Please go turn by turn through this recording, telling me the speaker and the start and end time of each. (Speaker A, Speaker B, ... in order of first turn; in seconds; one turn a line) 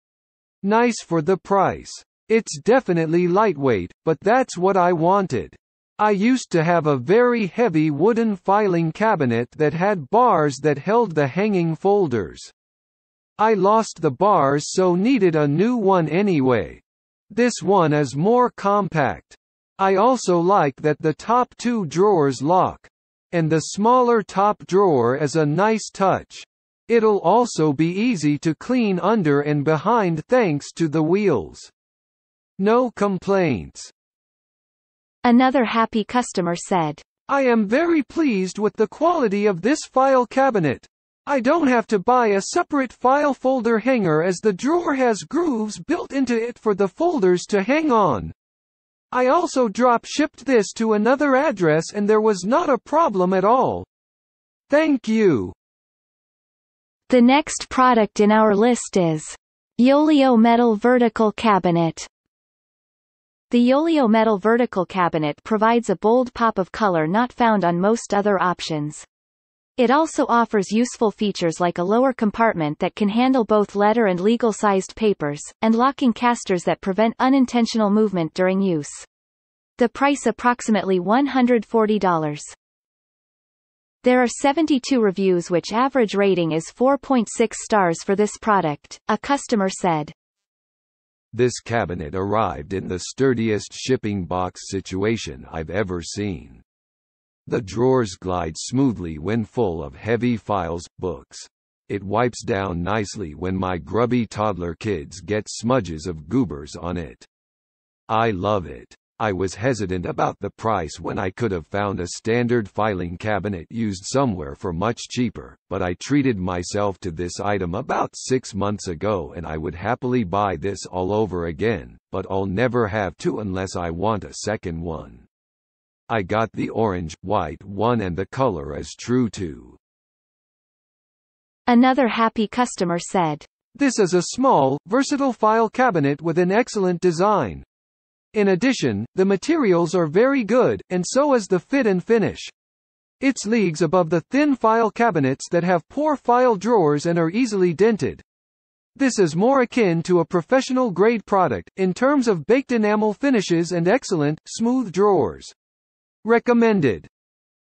Speaker A: 0.6-12.5
Speaker A: 13.4-31.7
Speaker A: 32.6-33.9
Speaker B: 35.2-37.0
Speaker A: 37.3-48.3
Speaker A: 49.1-53.9
Speaker A: 54.7-55.5
Speaker B: 57.1-62.1
Speaker B: 63.5-69.1
Speaker B: 69.8-79.1
Speaker B: 79.8-82.6
Speaker B: 84.0-90.1
Speaker A: 91.3-96.6
Speaker A: 97.5-107.3
Speaker A: 108.1-125.3
Speaker A: 126.1-129.8
Speaker B: 131.7-133.5
Speaker A: 133.8-137.7
Speaker A: 138.3-142.5
Speaker A: 143.2-148.2
Speaker A: 149.0-155.5
Speaker A: 156.2-157.1